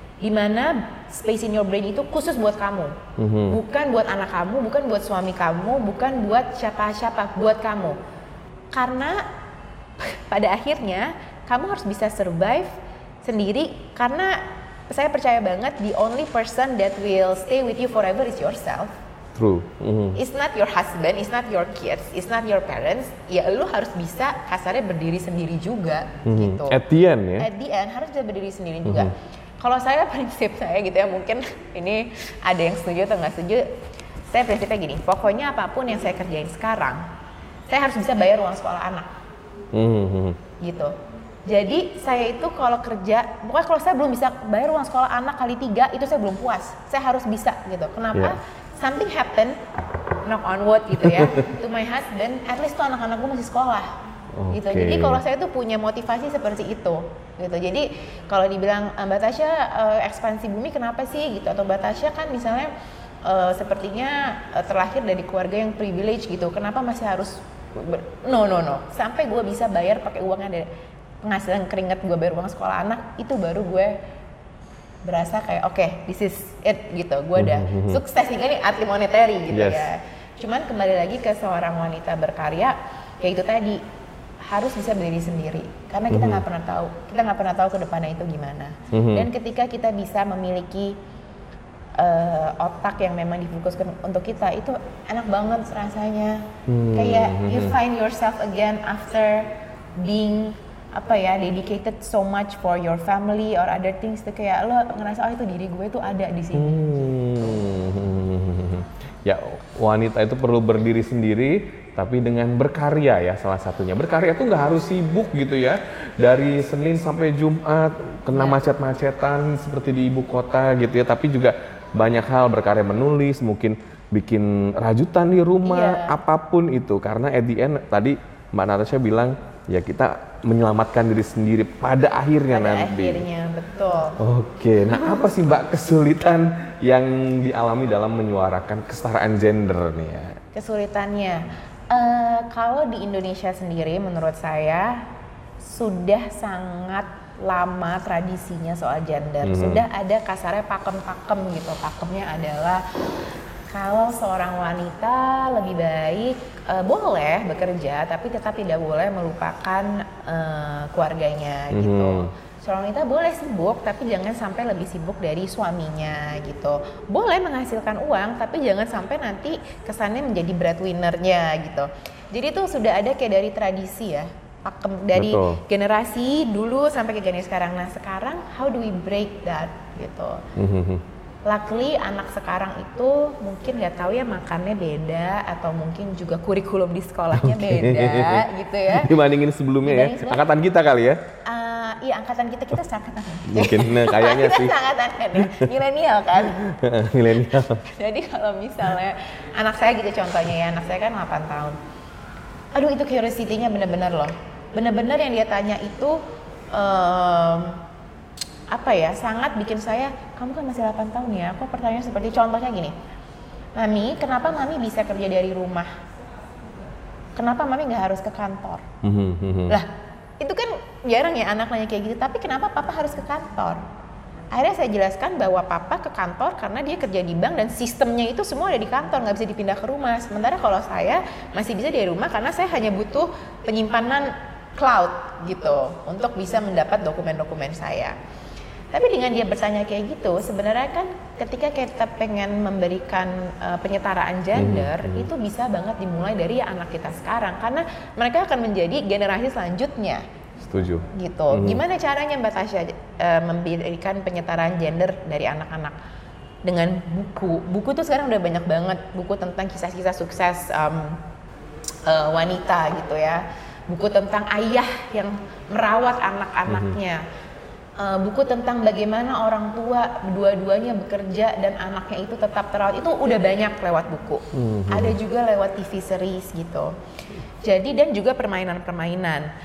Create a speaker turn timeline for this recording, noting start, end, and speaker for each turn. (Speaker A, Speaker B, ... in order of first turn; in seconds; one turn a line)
Speaker A: 0.2-3.0
Speaker B: 3.2-3.6
Speaker A: 3.5-8.0
Speaker A: 8.7-9.2
Speaker A: 10.0-18.9
Speaker B: 19.4-20.2
Speaker A: 20.1-26.8
Speaker B: 26.2-27.5
Speaker A: 27.4-33.7
Speaker B: 28.9-29.1
Speaker A: 34.3-37.0
Speaker A: 37.7-39.1
Speaker B: 39.7-40.4
Speaker A: 40.6-49.6
Speaker A: 50.2-53.9
Speaker B: 51.1-51.4
Speaker B: 54.4-55.2
Speaker A: 54.5-62.7
Speaker A: 63.2-70.7
Speaker A: 71.2-74.0
Speaker A: 75.0-83.8
Speaker B: 77.4-78.0
Speaker B: 79.5-79.9
Speaker A: 84.4-91.0
Speaker B: 86.1-86.4
Speaker B: 88.9-89.3
Speaker A: 92.0-107.2
Speaker B: 96.7-97.8
Speaker B: 106.5-133.2
Speaker A: 118.3-118.6
Speaker A: 125.6-126.2
Speaker A: 132.5-134.2
Speaker B: 134.2-140.4
Speaker A: 140.5-145.1
Speaker A: 145.6-152.8
Speaker B: 149.4-149.8
Speaker A: 153.7-180.4
Speaker B: 161.7-162.3
Speaker B: 175.1-175.6
Speaker B: 180.6-181.0
Speaker A: 181.4-189.2
Speaker B: 187.4-191.2
Speaker A: 189.8-190.4
Speaker A: 191.4-196.6
Speaker B: 193.5-194.8
Speaker B: 195.4-195.7
Speaker B: 196.6-197.9
Speaker A: 197.8-201.8
Speaker A: 202.7-206.2
Speaker A: 206.7-207.8
Speaker A: 208.7-212.9
Speaker A: 213.8-216.0
Speaker A: 217.4-218.8
Speaker B: 219.0-219.8
Speaker A: 219.7-223.8
Speaker A: 224.5-238.2
Speaker A: 238.9-250.2
Speaker B: 244.5-245.3
Speaker B: 250.6-251.8
Speaker A: 251.1-256.0
Speaker A: 256.6-261.2
Speaker A: 262.1-267.2
Speaker B: 266.7-266.9
Speaker A: 268.0-276.9
Speaker B: 274.5-275.2
Speaker A: 277.6-279.5